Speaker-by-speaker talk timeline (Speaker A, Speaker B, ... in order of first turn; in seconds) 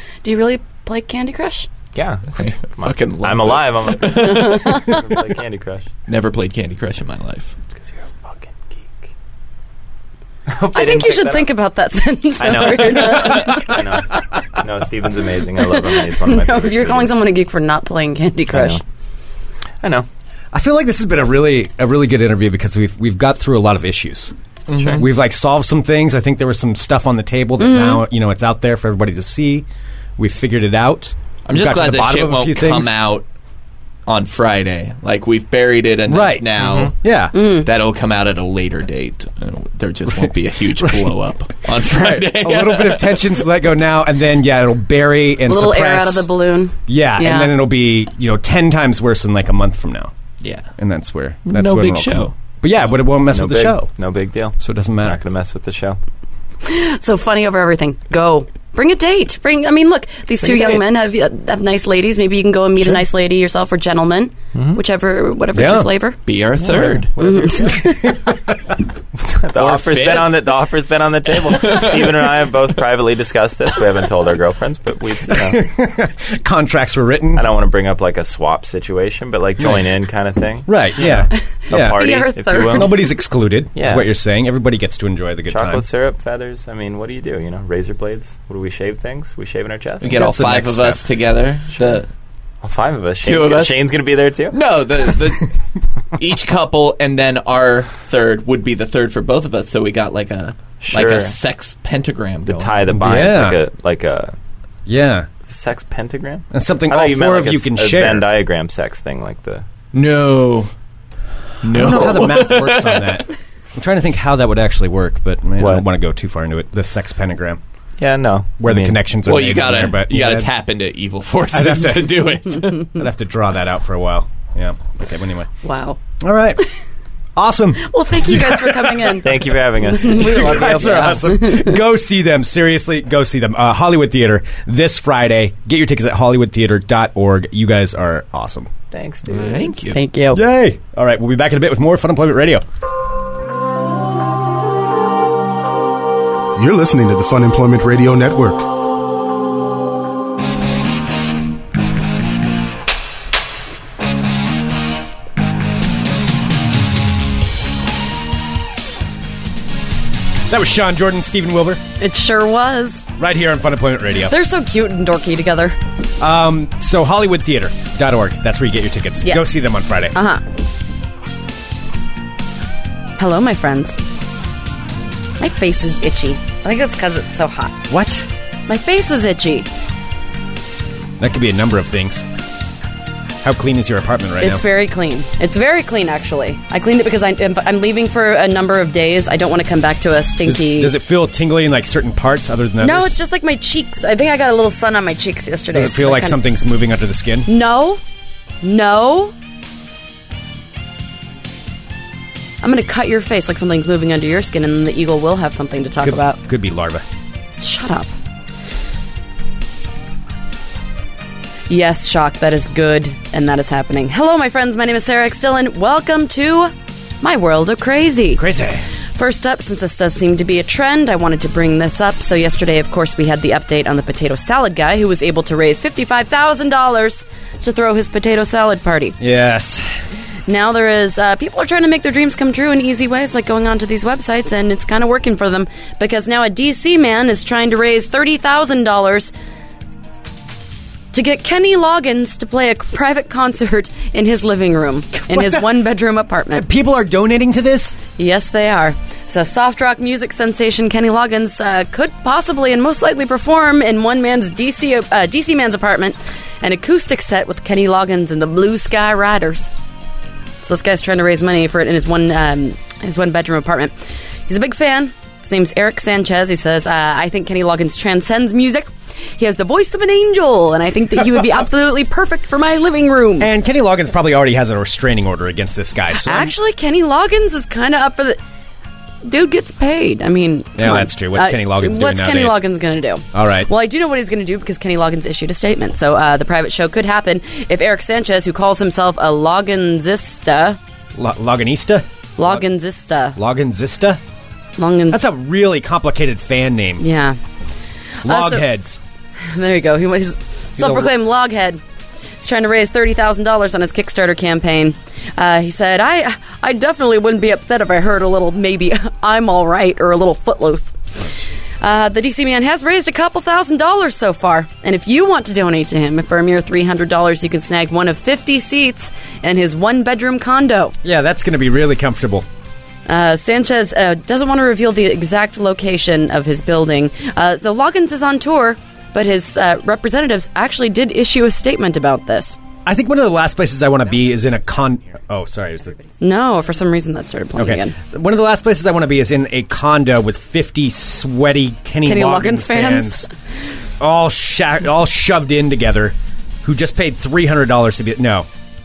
Speaker A: 0.2-1.7, 4.1-5.0, 10.7-13.8, 15.9-18.8, 27.6-28.0, 37.3-37.7, 45.5-47.6, 56.6-66.2, 67.2-68.2, 81.3-82.9, 125.6-126.0, 127.8-129.3, 129.8-131.8, 139.9-140.4, 162.0-163.1, 164.2-165.8, 169.2-169.6, 170.1-170.4, 173.2-174.0, 175.4-177.8, 178.7-179.7, 184.4-190.9, 192.8-196.4, 197.5-198.0, 198.6-199.3, 202.6-206.4, 207.6-208.1, 211.7-218.4, 219.1-229.2, 230.5-239.3, 241.1-246.6, 248.2-259.7, 260.6-263.9, 264.5-273.5, 276.2-278.4, 279.2-290.8, 292.4-293.4, 294.8-295.2, 297.0-297.4, 298.2-298.6, 299.4-301.8, 302.4-310.9, 311.8-320.9, 323.1-332.6, 336.2-337.9, 342.0-343.3
Speaker B: 1.9-5.9, 7.7-9.1, 10.5-11.5, 12.4-17.1, 18.5-18.8, 19.8-20.1, 24.7-25.1, 36.6-36.9, 53.2-56.0, 60.4-60.8, 64.5-64.8, 66.7-68.0, 69.2-75.6, 77.3-83.1, 83.7-84.1, 85.5-90.2, 92.6-94.6, 100.8-101.3, 102.5-104.3, 105.5-109.6, 115.6-115.8, 118.0-119.1, 129.2-131.2, 138.9-139.8
Speaker C: 2.3-4.5, 6.1-7.5, 24.7-25.0, 31.4-33.2, 34.0-36.9, 37.5-43.3, 50.4-50.7, 51.5-52.3, 66.2-67.1, 69.5-70.3, 71.5-72.3, 90.0-92.1, 93.2-93.8, 94.5-95.5, 96.2-102.8, 109.9-110.7, 111.6-113.2, 119.2-122.7, 139.2-140.0
Speaker D: 20.5-24.3, 24.9-29.6, 30.2-32.9, 36.1-37.4, 42.3-46.3, 46.9-50.1, 50.8-53.9, 54.6-55.2, 65.5-65.9, 66.6-67.1, 67.8-68.7, 75.3-77.5, 80.7-82.0, 82.6-85.8, 90.1-91.0, 102.9-103.6, 104.9-105.3, 106.5-108.3, 111.7-117.6, 118.6-120.5, 121.5-125.5, 126.2-126.6, 127.3-129.5, 130.1-138.7, 140.3-142.6, 160.5-161.8, 163.2-164.3, 166.2-170.1, 177.9-178.3, 181.2-182.2, 183.4-184.6, 190.4-193.1, 195.7-197.5, 206.0-207.0, 218.4-218.8, 229.2-229.9, 245.2-245.7, 246.5-248.0, 273.4-276.5, 280.8-282.6, 283.3-283.7, 291.1-292.6, 293.4-294.2, 295.1-297.0, 298.2-299.0, 300.8-301.1, 321.0-322.4, 332.8-336.0, 337.6-343.3, 344.0-348.5
Speaker E: 146.6-148.7